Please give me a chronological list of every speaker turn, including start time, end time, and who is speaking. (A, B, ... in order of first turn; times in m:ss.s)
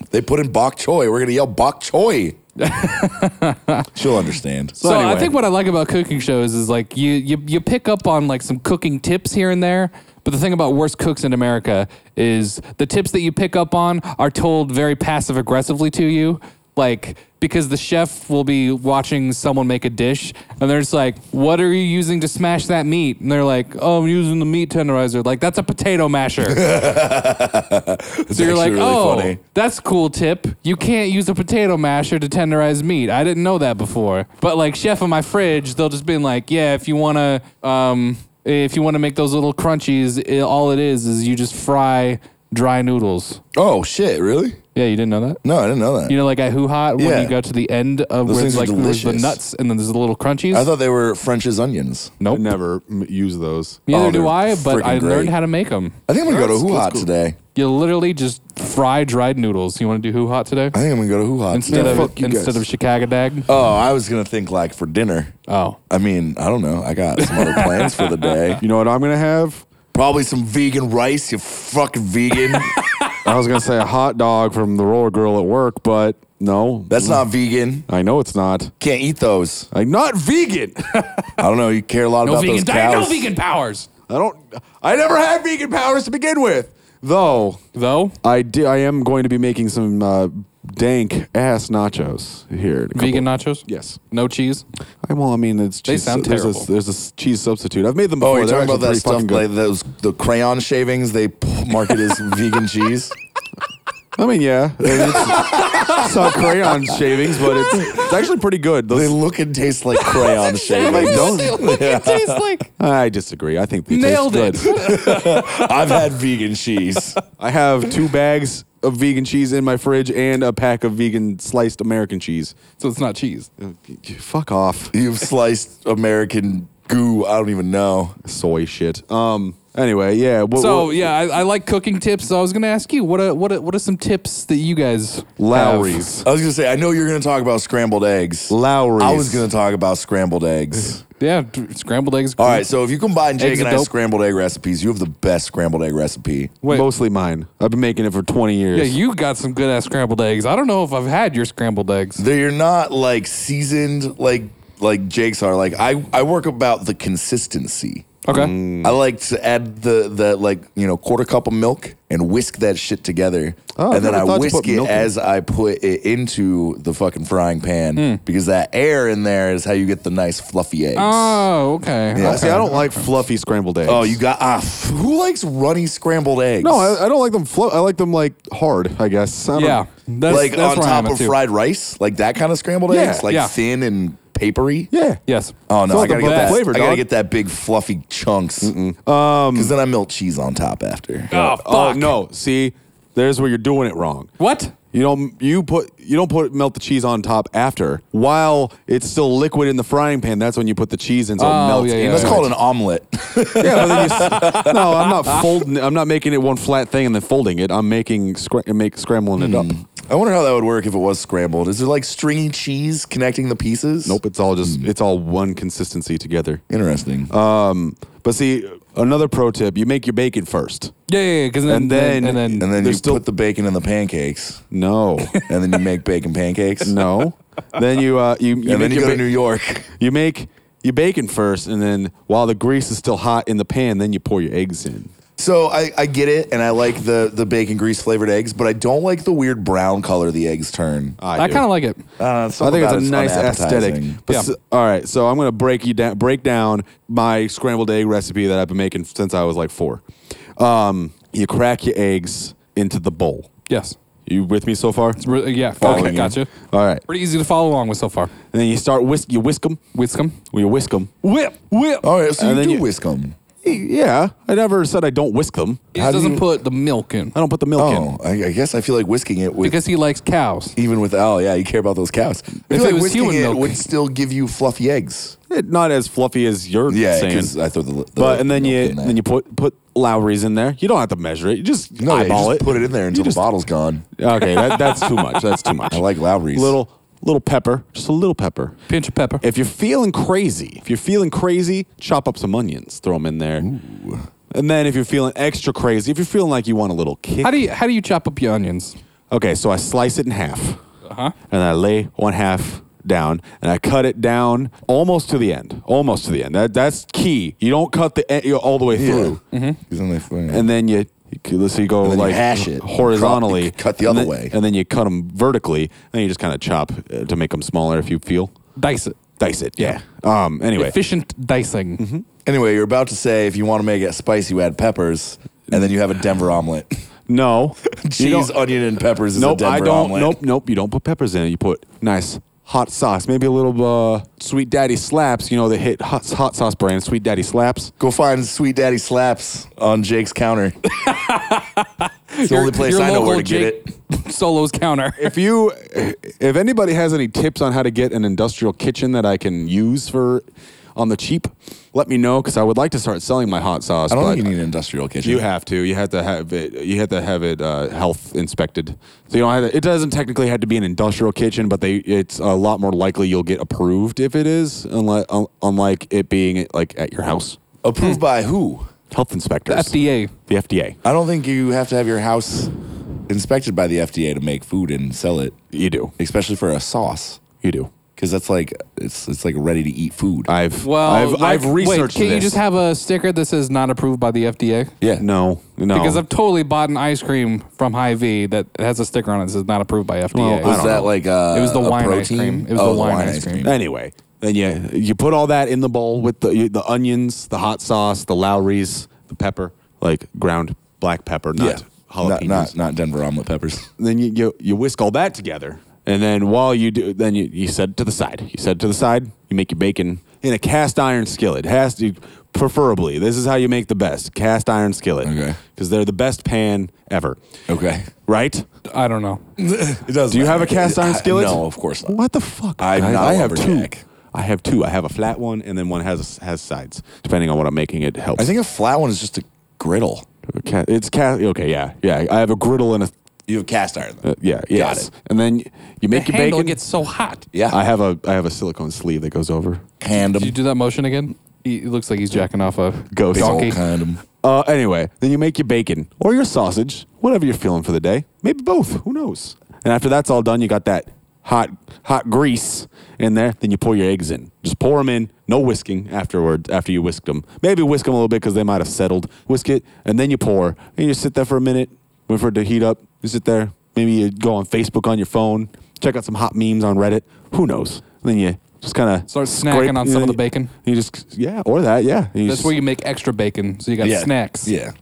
0:00.1-0:02.4 A
0:02.6-0:03.9 B
0:04.0-0:04.8 A
0:04.8-0:05.4 C
0:04.8-0:26.7 B
0:26.4-0:29.4 A
0:28.3-0:43.4 B
0:43.5-0:44.6 A
0:44.8-0:45.4 B
0:45.4-0:46.2 A
0:46.1-0:50.7 B
0:47.0-0:47.4 A
0:48.2-0:49.4 A
0:50.5-0:52.1 A
0:52.2-0:52.5 B
0:52.3-0:53.9 C
0:53.9-0:56.0 B
0:53.9-0:55.4 A
0:56.1-0:57.4 A
0:56.3-0:57.1 C
0:57.6-1:00.8 B
1:00.7-1:02.1 A
1:01.5-1:03.5 B
1:01.7-1:02.6 C
1:03.5-1:05.3 A
1:05.5-1:05.8 B
1:05.9-1:08.6 A
1:07.2-1:08.6 B
1:08.6-1:09.6 C
1:09.9-1:12.7 A
1:12.5-1:13.2 B
1:13.2-1:17.3 C
1:16.9-1:17.9 A
1:17.9-1:18.7 C
1:18.8-1:19.7 A
1:19.7-1:20.9 C
1:20.9-1:21.4 B
1:21.4-1:23.3 A
1:22.2-1:23.9 B
1:24.1-1:27.6 C
1:27.8-1:28.2 B
1:28.2-1:34.0 C
1:33.0-1:34.6 B
1:35.0-1:39.5 C
1:35.9-1:36.7 B
1:38.2-1:43.2 A
1:44.2-1:49.2 C
1:44.9-1:47.0 A
1:45.5-1:46.1 B
1:47.4-1:48.0 B
1:47.6-1:47.9 A
1:48.9-1:52.5 A
1:50.1-1:52.7 B
1:50.8-1:51.6 C
1:52.8-1:54.8 C
1:53.9-1:55.7 B
1:54.6-1:57.2 A
1:57.4-2:02.6 C
2:02.8-2:03.5 B
2:03.6-2:04.9 C
2:04.9-2:08.2 A
2:08.2-2:11.1 C
2:10.6-2:16.1 B
2:15.4-2:16.3 C
2:16.2-2:21.0 A
2:18.5-2:19.5 C
2:21.2-2:22.7 B
2:22.4-2:26.6 A
2:23.4-2:23.9 B
2:26.6-2:26.9 B
2:26.7-2:29.0 C
2:28.7-2:32.2 B
2:32.2-2:38.2 A
2:38.2-2:38.5 B
2:38.3-2:39.0 C
2:38.8-2:51.5 A
2:43.8-2:45.1 C
2:48.0-2:48.2 B
2:51.0-2:53.1 B
2:52.1-2:52.7 A
2:52.2-2:54.2 C
2:53.8-2:57.0 A
2:56.6-2:59.8 C
2:59.6-3:01.4 B
3:00.3-3:04.9 A
3:02.9-3:03.3 C
3:03.3-3:03.5 B
3:04.9-3:05.2 C
3:05.3-3:06.6 B
3:05.7-3:08.8 A
3:05.9-3:07.0 C
3:08.6-3:09.7 C
3:09.5-3:11.3 A
3:11.3-3:12.2 B
3:11.3-3:14.3 C
3:14.4-3:14.8 B
3:14.9-3:22.5 C
3:21.4-3:22.4 B
3:22.0-3:24.9 A
3:23.6-3:29.7 C
3:24.0-3:25.5 B
3:29.4-3:34.9 A
3:34.1-3:36.6 C
3:36.7-3:37.3 A
3:37.3-3:40.9 C
3:41.1-3:42.7 B
3:41.7-3:43.2 C
3:42.6-3:44.6 A
3:44.7-3:45.4 C
3:45.5-3:47.0 A
3:46.8-3:49.3 C
3:48.6-3:49.9 A
3:50.0-3:55.1 C
3:55.4-4:01.2 A
4:01.2-4:01.7 C
4:01.4-4:02.0 B
4:02.2-4:04.2 A
4:02.6-4:10.0 C
4:10.6-4:13.5 C
4:13.7-4:14.0 B
4:14.3-4:15.2 C
4:15.2-4:16.5 B
4:15.8-4:17.0 C
4:15.8-4:16.4 A
4:17.1-4:18.3 B
4:18.5-4:19.8 C
4:19.9-4:20.4 B
4:20.5-4:21.2 C
4:21.2-4:22.0 B
4:22.0-4:23.4 A
4:22.4-4:22.8 C
4:23.6-4:26.0 C
4:25.9-4:27.4 B
4:26.0-4:26.4 A
4:27.4-4:28.1 C
4:27.8-4:29.8 A
4:29.6-4:30.8 B
4:30.8-4:35.4 A
4:32.7-4:33.8 B
4:35.5-4:37.5 C
4:36.9-4:39.2 A
4:38.2-4:43.5 C
4:42.0-4:44.0 A
4:44.2-4:48.8 C
4:45.9-4:46.8 A
4:48.9-4:49.4 B
4:49.4-4:53.7 C
4:53.6-4:54.3 A
4:54.5-4:57.6 C
4:57.4-4:59.0 B
4:59.3-5:00.8 C
5:01.0-5:01.4 B
5:01.5-5:09.4 C
5:08.9-5:10.7 A
5:09.5-5:09.8 B
5:10.5-5:18.5 C
5:12.0-5:14.5 A
5:18.8-5:19.2 B
5:19.4-5:21.0 C
5:20.8-5:22.0 B
5:22.0-5:22.2 C
5:22.4-5:26.9 A
5:27.3-5:28.6 C
5:27.9-5:30.4 A
5:29.4-5:37.9 C
5:38.0-5:40.7 A
5:40.9-5:45.4 B
5:42.4-5:43.9 A
5:45.2-5:50.4 C
5:51.0-5:54.5 C
5:54.1-5:55.5 A
5:55.2-6:07.6 C
6:07.8-6:08.9 A
6:09.1-6:11.0 C
6:09.7-6:10.3 B
6:11.0-6:12.7 A
6:13.3-6:15.6 A
6:15.7-6:16.1 C
6:16.2-6:17.4 A
6:17.6-6:17.9 C
6:18.2-6:20.5 A
6:20.5-6:22.6 C
6:20.8-6:24.9 B
6:25.2-6:26.2 C
6:25.9-6:30.8 B
6:30.3-6:31.1 C
6:30.6-6:33.7 A
6:31.5-6:33.7 B
6:33.6-6:42.7 C
6:41.6-6:43.9 A
6:44.0-6:57.4 C
6:55.2-6:55.6 A
6:57.7-6:58.1 A
6:58.3-6:58.6 C
6:58.9-6:59.4 B
6:59.6-7:02.2 A
7:00.3-7:08.5 C
7:02.8-7:04.0 A
7:08.4-7:10.3 A
7:10.6-7:13.1 C
7:13.5-7:15.1 A
7:14.2-7:16.8 C
7:16.1-7:17.5 B
7:17.5-7:17.8 A
7:17.7-7:19.8 C
7:20.0-7:20.6 A
7:20.3-7:23.8 B
7:23.1-7:23.8 C
7:23.3-7:24.2 A
7:24.4-7:52.8 C
7:49.3-7:50.7 B
7:52.5-7:54.7 B
7:54.0-7:54.9 A